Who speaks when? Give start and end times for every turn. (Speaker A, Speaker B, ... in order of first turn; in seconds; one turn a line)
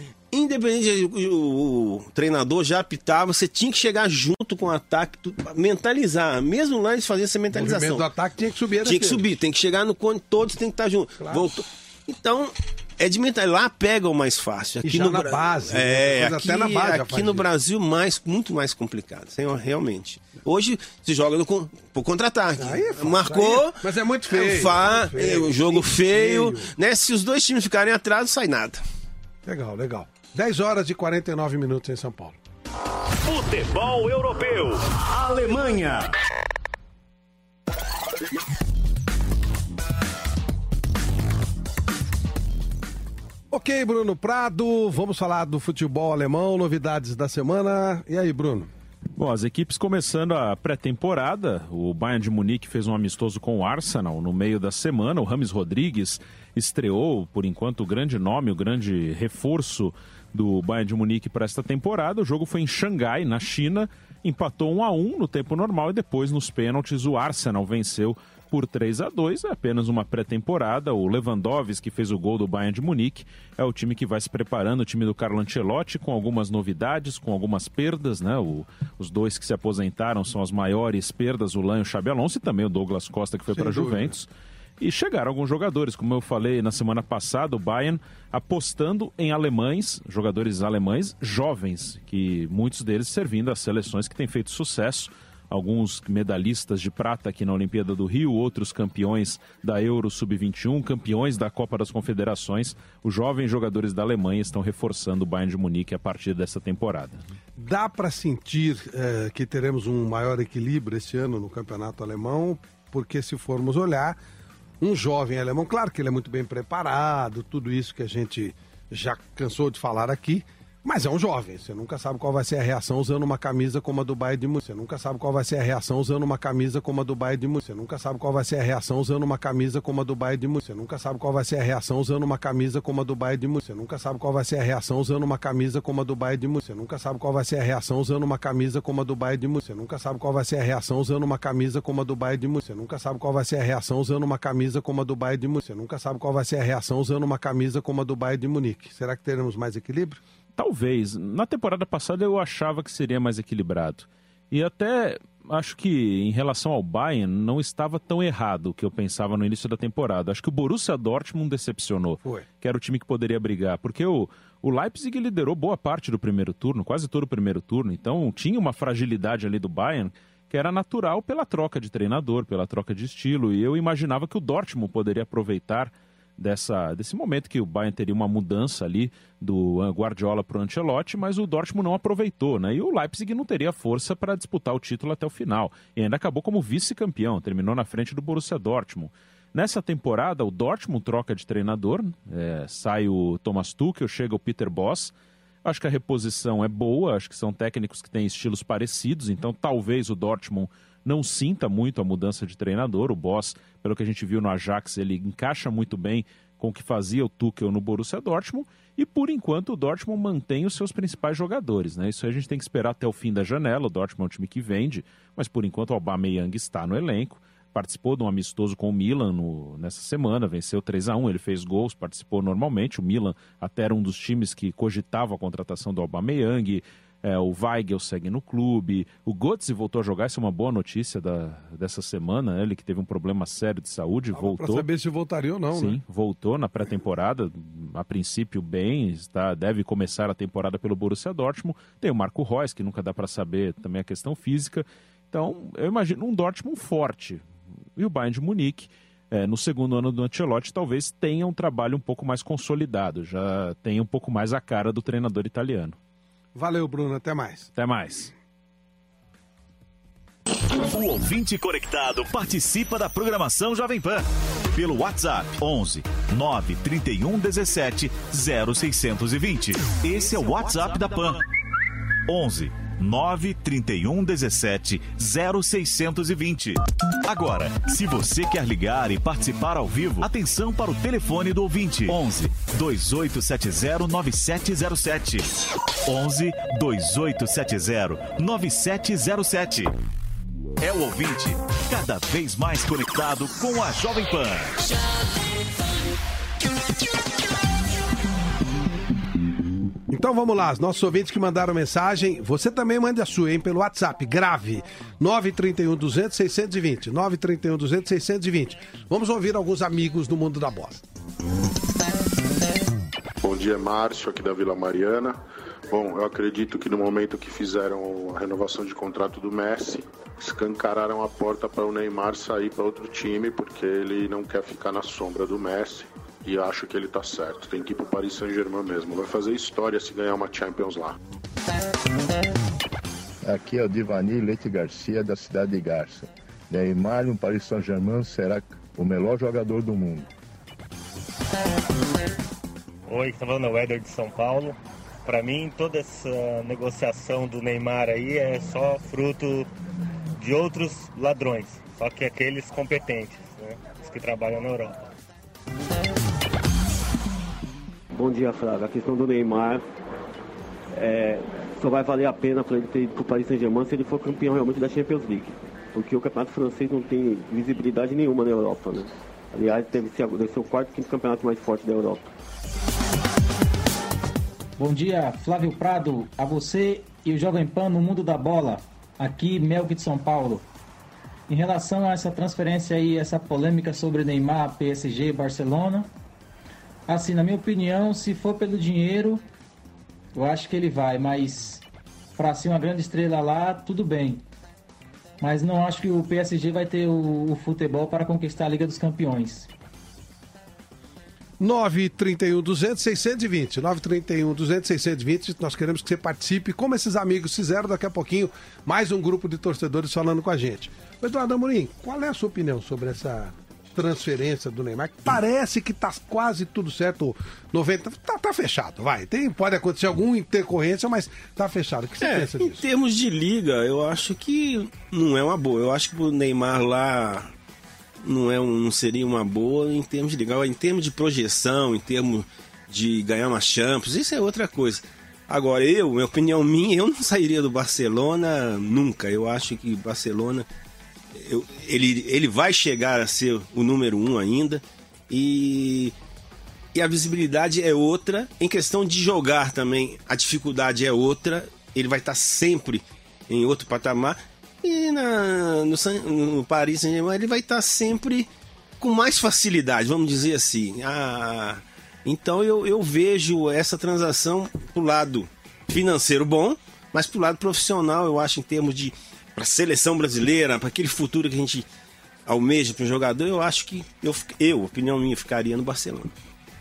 Speaker A: 0.3-8.0
Speaker B: 7.5-9.2
Speaker A: 8.8-28.8
Speaker B: 11.2-11.4
Speaker B: 14.8-17.5
Speaker B: 22.6-26.7
Speaker B: 29.4-32.4
Speaker C: 33.2-36.1
Speaker B: 43.5-48.7
Speaker D: 49.2-84.2
Speaker B: 83.5-84.1
Speaker D: 84.8-107.2
Speaker B: 107.6-114.2
Speaker B: 114.8-150.2
Speaker D: 150.6-195.1
Speaker D: 195.6-234.9
Speaker B: 234.3-236.0
Speaker D: 235.7-247.4
Speaker D: 247.9-255.9
Speaker B: 256.5-257.7
Speaker D: 257.7-258.3
Speaker E: 260.9-271.4
Speaker E: 272.3-285.5
Speaker E: 286.1-289.9
Speaker E: 290.8-294.7
Speaker B: 300.1-311.0
Speaker F: 313.4-331.2
Speaker G: 333.4-340.3
Speaker H: 343.1-349.7
Speaker H: 350.4-355.0
Speaker I: 358.1-359.8
Speaker I: 360.9-372.3
Speaker J: 374.8-380.6
Speaker J: 381.5-386.1
Speaker J: 387.1-389.4
Speaker J: 390.3-391.8
Speaker J: 392.4-394.4
Speaker J: 395.4-399.7
Speaker B: 401.6-422.8
Speaker A: 422.2-427.5
Speaker A: 428.2-440.7
Speaker A: 441.3-446.1
Speaker A: 446.9-458.5
Speaker A: 459.0-471.9
Speaker A: 472.4-476.3